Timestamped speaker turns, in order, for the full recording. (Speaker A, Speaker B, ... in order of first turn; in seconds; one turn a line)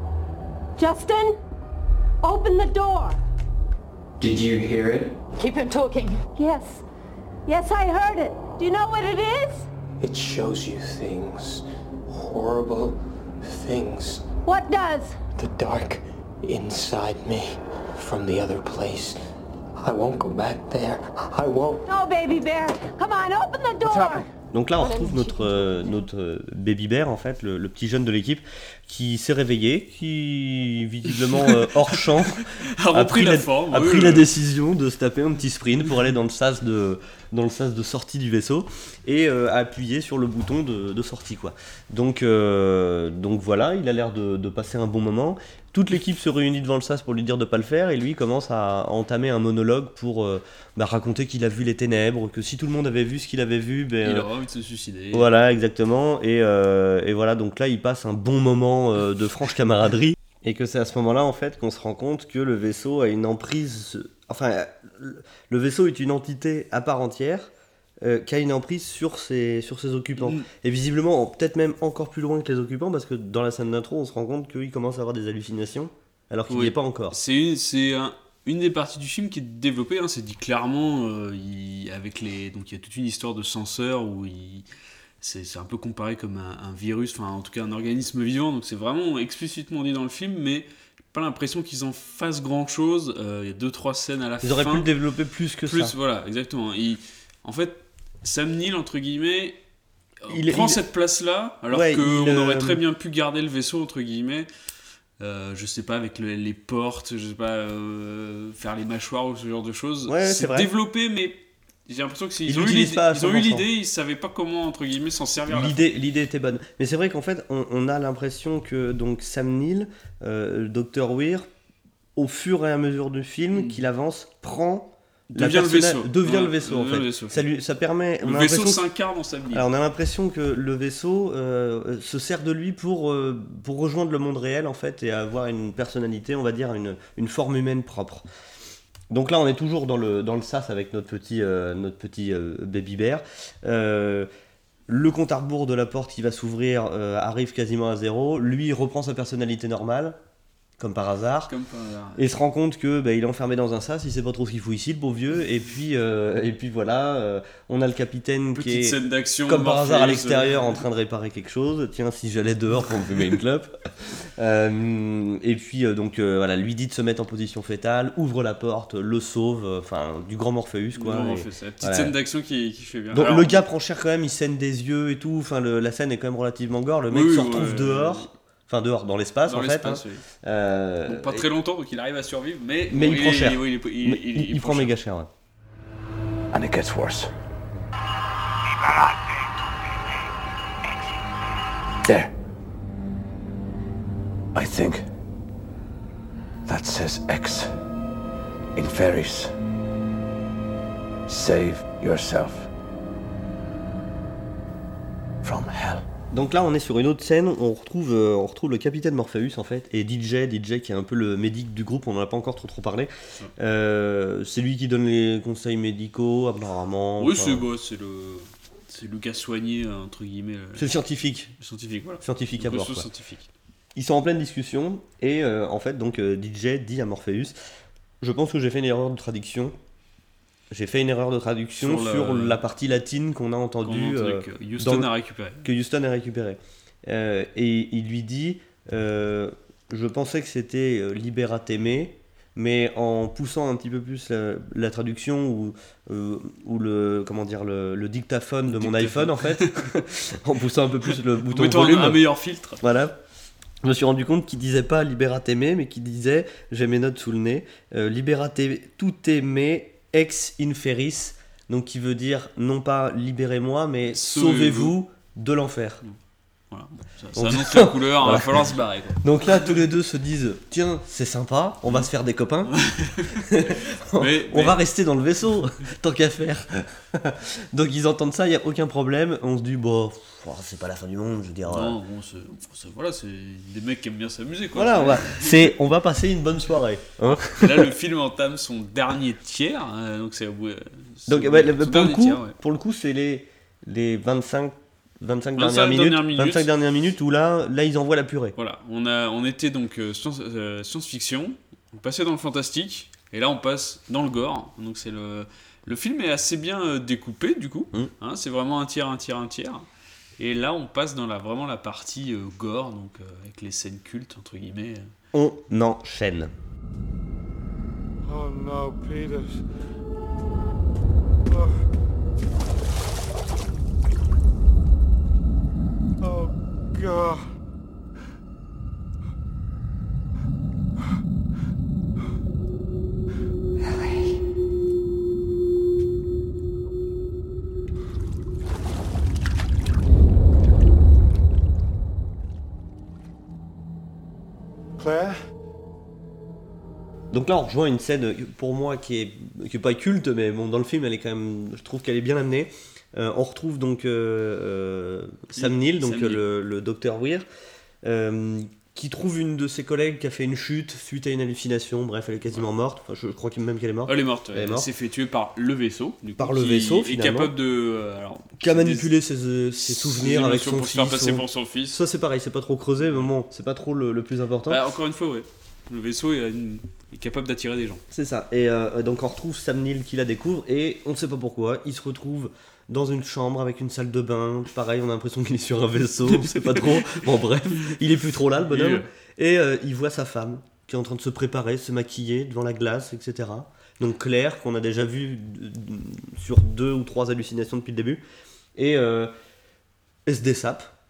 Speaker A: 0.8-1.4
Speaker A: 2.2-3.2
Speaker B: 4.2-5.2
Speaker A: 5.3-6.8
Speaker A: 7.5-9.7
Speaker B: 10.0-14.3
Speaker A: 14.4-15.2
Speaker B: 15.4-19.2
Speaker B: 19.8-21.8
Speaker A: 21.9-26.1
Speaker C: 24.5-54.3
Speaker D: 31.3-34.3
Speaker D: 54.0-55.3
Speaker C: 55.1-67.5
Speaker C: 68.0-77.2
Speaker D: 70.2-70.5
Speaker D: 76.5-84.7
Speaker D: 85.2-94.9
Speaker C: 94.4-95.9
Speaker D: 95.6-99.6
Speaker D: 100.2-104.5
Speaker C: 100.3-100.8
Speaker C: 101.7-102.8
Speaker D: 105.2-115.8
Speaker C: 110.1-110.7
Speaker C: 112.5-113.7
Speaker C: 115.5-121.5
Speaker C: 122.2-128.8
Speaker D: 123.5-123.8
Speaker D: 125.3-127.4
Speaker D: 128.2-129.7
Speaker C: 129.5-138.2
Speaker C: 139.1-144.3
Speaker C: 144.9-150.2
Speaker C: 150.8-151.5
Speaker D: 151.4-152.3
Speaker C: 152.2-172.1
Speaker D: 158.5-160.8
Speaker D: 170.9-173.6
Speaker C: 173.1-181.5
Speaker D: 177.1-178.3
Speaker D: 179.4-180.2
Speaker D: 181.1-184.9
Speaker C: 182.9-185.3
Speaker E: 186.5-187.3
Speaker E: 188.9-189.1
Speaker E: 192.1-192.3
Speaker E: 194.6-195.0
Speaker E: 196.7-197.7
Speaker E: 198.8-199.5
Speaker E: 201.3-202.7
Speaker E: 205.4-206.0
Speaker C: 206.3-217.7
Speaker D: 217.2-220.9
Speaker C: 220.8-221.5
Speaker D: 221.6-223.5
Speaker C: 222.2-223.1
Speaker C: 223.9-227.6
Speaker C: 228.2-229.7
Speaker C: 230.7-235.1
Speaker D: 231.8-232.6
Speaker D: 233.8-235.7
Speaker C: 235.6-252.2
Speaker D: 248.7-249.9
Speaker D: 251.1-252.8
Speaker C: 252.8-253.1
Speaker C: 253.8-266.0
Speaker D: 264.1-264.9
Speaker D: 266.7-269.7
Speaker C: 267.4-268.6
Speaker C: 269.2-272.7
Speaker D: 272.6-274.8
Speaker C: 273.5-281.9
Speaker D: 281.7-285.7
Speaker C: 284.7-287.9
Speaker D: 287.2-292.6
Speaker C: 291.3-298.6
Speaker D: 295.6-296.7
Speaker D: 298.6-309.9
Speaker D: 310.4-315.1
Speaker C: 315.3-316.5
Speaker F: 318.2-319.6
Speaker F: 326.2-327.5
Speaker F: 345.0-345.3
Speaker C: 347.3-357.4
Speaker D: 355.6-356.4
Speaker C: 358.0-364.9
Speaker D: 364.1-369.1
Speaker C: 366.4-367.5
Speaker C: 368.6-374.8
Speaker D: 369.8-372.0
Speaker D: 374.7-378.0
Speaker C: 378.1-398.2
Speaker D: 386.2-387.2
Speaker D: 388.7-389.1
Speaker C: 398.8-399.3
Speaker C: 400.3-400.9